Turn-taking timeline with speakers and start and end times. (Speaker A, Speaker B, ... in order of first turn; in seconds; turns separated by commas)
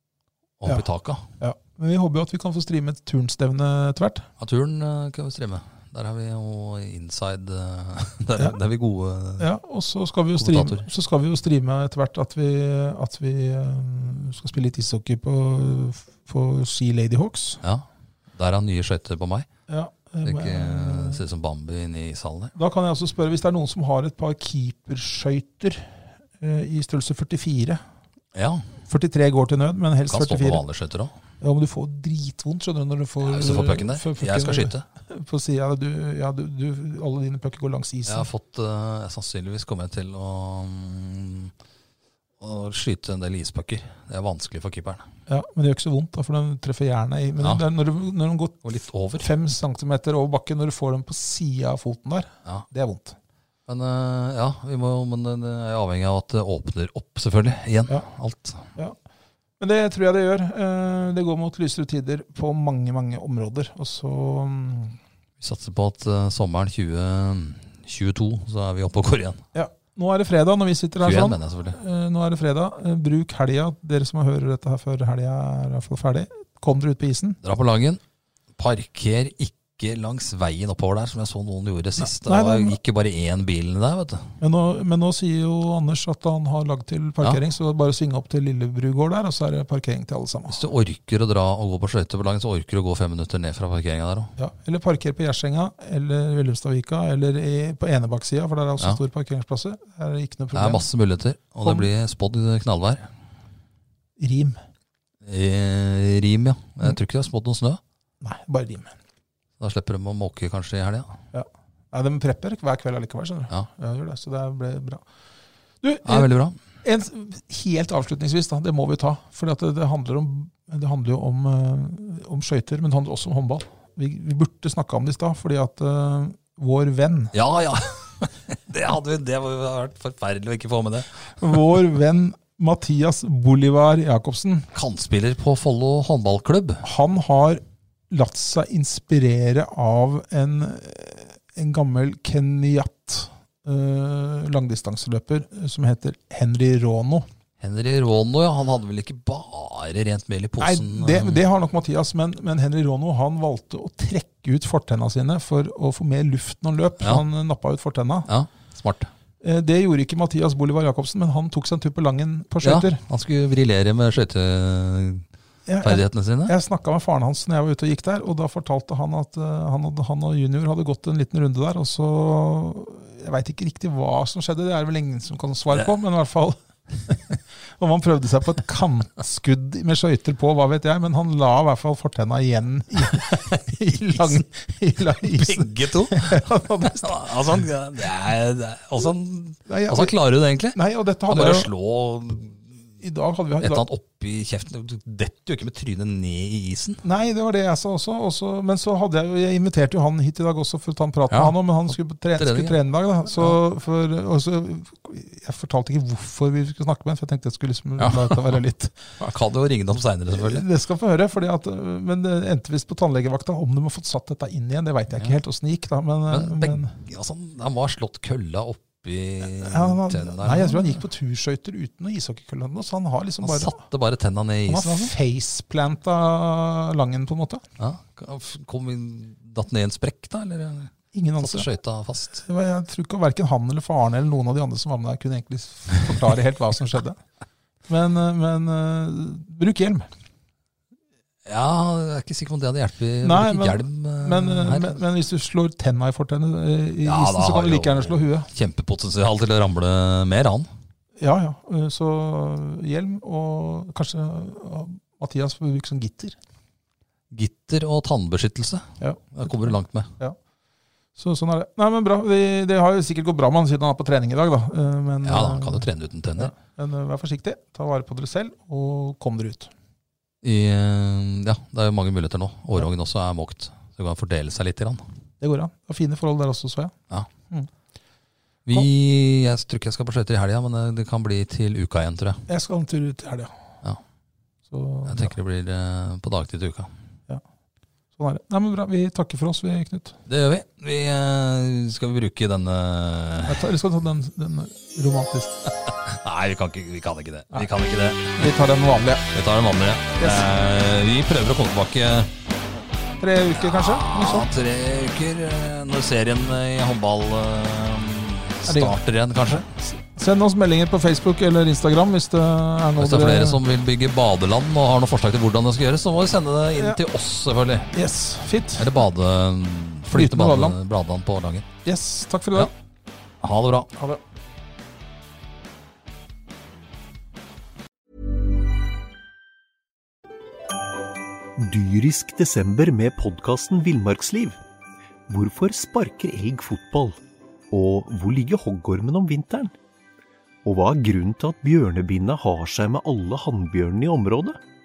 Speaker A: 0.6-1.2, Speaker B: 1.4-4.3, Speaker A: 4.4-9.5, Speaker B: 9.4-17.6, Speaker A: 10.4-10.8, Speaker A: 17.6-19.5, Speaker B: 19.7-21.2, Speaker A: 20.2-22.5, Speaker B: 22.6-27.8, Speaker A: 28.3-28.7, Speaker B: 28.9-30.6, Speaker A: 30.1-31.1, Speaker B: 31.4-38.3, Speaker A: 33.2-34.8, Speaker A: 38.0-41.5, Speaker A: 42.4-45.1, Speaker B: 45.3-53.1, Speaker A: 48.6-49.3, Speaker A: 53.7-58.7, Speaker B: 59.6-65.0, Speaker A: 65.4-69.4, Speaker B: 69.5-77.4, Speaker A: 71.0-71.8, Speaker A: 77.4-78.0, Speaker A: 78.6-84.3, Speaker B: 82.0-82.8, Speaker B: 84.4-90.6, Speaker A: 90.5-94.3, Speaker B: 94.4-100.8, Speaker A: 100.5-103.1, Speaker B: 101.6-101.9, Speaker B: 104.2-104.6, Speaker A: 105.2-107.8, Speaker B: 108.2-108.9, Speaker A: 109.6-111.2, Speaker B: 111.3-115.0, Speaker B: 115.8-116.3, Speaker A: 116.0-116.6, Speaker B: 116.8-127.3, Speaker A: 127.3-131.6, Speaker B: 131.4-134.7, Speaker A: 134.7-136.8, Speaker B: 136.8-147.3, Speaker A: 147.6-151.4, Speaker B: 150.6-158.3, Speaker A: 158.3-159.1, Speaker B: 159.4-163.0, Speaker A: 162.6-165.2, Speaker B: 165.7-187.6, Speaker A: 165.8-166.5, Speaker A: 185.2-192.6, Speaker B: 189.7-190.1, Speaker B: 190.7-191.7, Speaker B: 193.0-193.9, Speaker A: 193.6-197.0, Speaker B: 197.0-209.1, Speaker A: 201.3-201.6, Speaker A: 202.3-202.8, Speaker A: 208.0-208.6, Speaker A: 209.2-210.7, Speaker B: 210.3-216.9, Speaker A: 216.3-221.0, Speaker B: 219.6-223.8, Speaker A: 223.4-225.1, Speaker B: 224.7-227.6, Speaker A: 227.8-232.4, Speaker B: 231.1-231.7, Speaker B: 232.4-237.2, Speaker B: 237.9-240.1, Speaker A: 241.4-245.0, Speaker B: 243.2-248.5, Speaker A: 247.0-250.7, Speaker B: 251.2-256.4, Speaker A: 257.3-260.1, Speaker B: 259.0-260.4, Speaker B: 261.1-269.7, Speaker A: 265.2-266.5, Speaker A: 270.4-275.0, Speaker B: 275.4-276.9, Speaker A: 278.6-282.4, Speaker B: 282.5-283.5, Speaker B: 284.7-285.3, Speaker A: 285.1-286.9, Speaker B: 288.1-290.2, Speaker A: 290.3-293.6, Speaker B: 293.5-295.6, Speaker A: 296.1-298.5, Speaker B: 298.4-299.2, Speaker A: 299.3-302.3, Speaker B: 300.2-300.5, Speaker B: 303.2-304.5, Speaker A: 303.5-309.7, Speaker B: 308.6-313.6, Speaker A: 313.0-317.9, Speaker B: 316.8-317.0, Speaker B: 317.9-318.9, Speaker A: 318.8-321.7, Speaker B: 320.1-320.8, Speaker B: 321.8-322.7, Speaker A: 323.4-323.9, Speaker B: 323.9-324.2, Speaker C: 331.6-334.6, Speaker C: 335.3-337.2, Speaker C: 337.7-339.7, Speaker C: 340.6-344.6